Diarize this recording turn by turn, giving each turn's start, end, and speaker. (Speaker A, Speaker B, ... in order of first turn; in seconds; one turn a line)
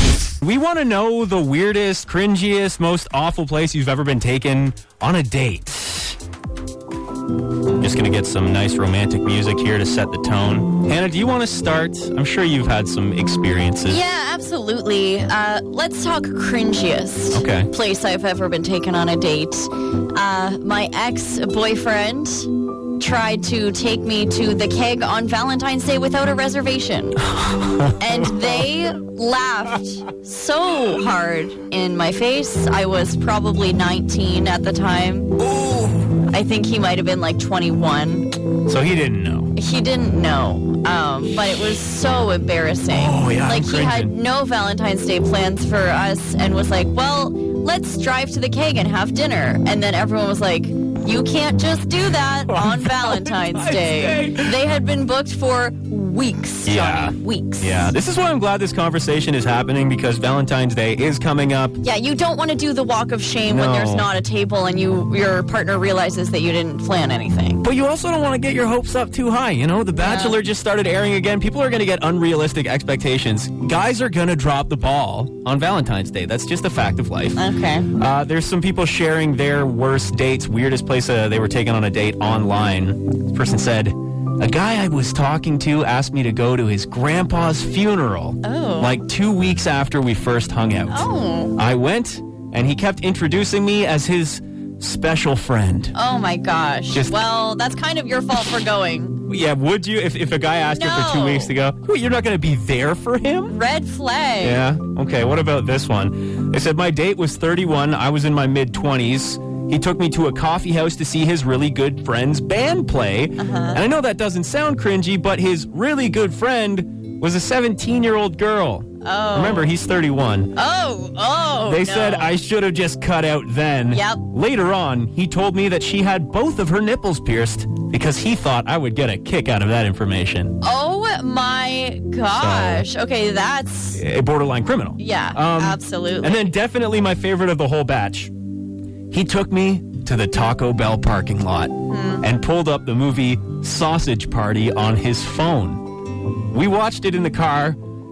Speaker A: 0.4-6.2
Speaker A: 7.8-14.0
Speaker B: 13.9-27.2
Speaker A: 17.3-17.7
Speaker A: 27.4-28.0
Speaker B: 28.0-35.4
Speaker A: 35.4-36.0
Speaker B: 36.1-38.3
Speaker A: 38.7-39.5
Speaker B: 39.6-57.9
Speaker A: 42.9-44.1
Speaker A: 52.5-54.5
Speaker A: 56.7-61.8
Speaker B: 61.8-67.6
Speaker A: 63.5-64.1
Speaker A: 67.6-77.4
Speaker B: 70.0-70.4
Speaker B: 77.4-77.9
Speaker A: 78.0-95.9
Speaker B: 88.4-89.0
Speaker B: 90.9-91.6
Speaker B: 95.9-99.2
Speaker A: 99.3-103.6
Speaker B: 100.7-101.5
Speaker B: 103.5-104.6
Speaker A: 104.4-120.6
Speaker B: 113.4-113.8
Speaker B: 119.0-119.7
Speaker B: 120.5-122.4
Speaker A: 121.7-130.6
Speaker B: 123.9-124.2
Speaker B: 130.6-134.0
Speaker A: 132.3-132.9
Speaker A: 133.9-138.3
Speaker B: 135.0-136.4
Speaker A: 139.1-145.8
Speaker B: 141.9-142.2
Speaker A: 146.5-147.8